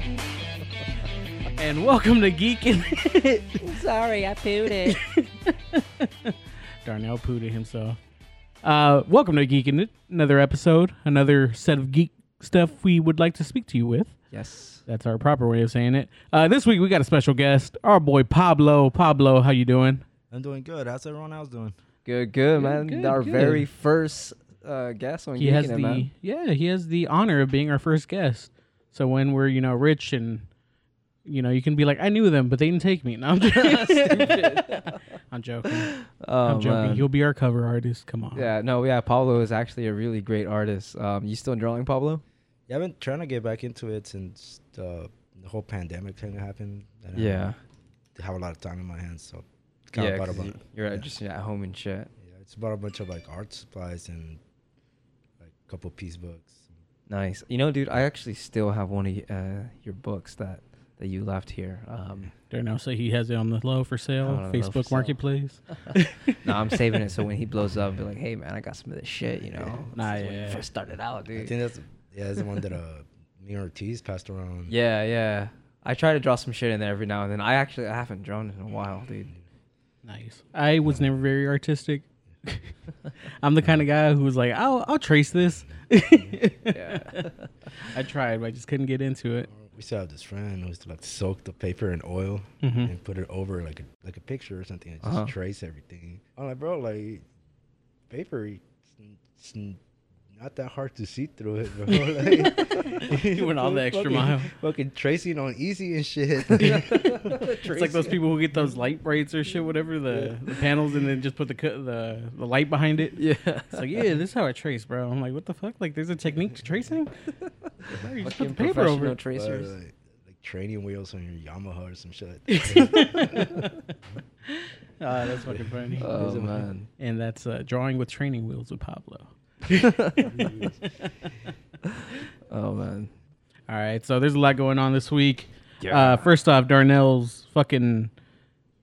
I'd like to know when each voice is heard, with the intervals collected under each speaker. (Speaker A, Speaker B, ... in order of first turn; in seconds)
Speaker A: 1.6-3.6, 4.8-8.0, 8.6-14.1, 14.9-20.0, 22.5-23.7, 25.4-30.5, 31.2-35.9, 36.4-38.5, 62.5-66.4, 69.9-70.6, 80.0-82.7, 83.4-87.3, 87.8-89.5, 92.6-92.9, 101.9-104.5, 106.7-117.1, 117.9-119.2, 122.5-123.9, 124.5-126.1, 127.0-130.5, 133.7-138.1
Speaker B: 3.6-5.0, 14.3-14.8, 22.0-26.1, 33.5-35.0, 35.7-37.1, 38.3-42.2, 47.1-47.5, 49.9-52.1, 57.1-62.3, 64.2-65.1, 65.9-71.5, 74.7-79.3, 86.7-87.5, 95.0-95.3, 106.6-108.2, 113.2-114.0, 118.1-119.7, 126.0-126.9, 129.7-130.3, 131.8-133.1, 135.8-136.3
Speaker C: 20.3-21.7, 42.7-47.5, 48.1-51.1, 52.2-54.4, 55.4-56.7, 69.5-69.9, 71.3-74.7, 89.5-97.2, 98.1-99.8, 100.3-107.4, 110.1-110.4, 119.3-123.7, 125.4-126.7, 130.3-130.8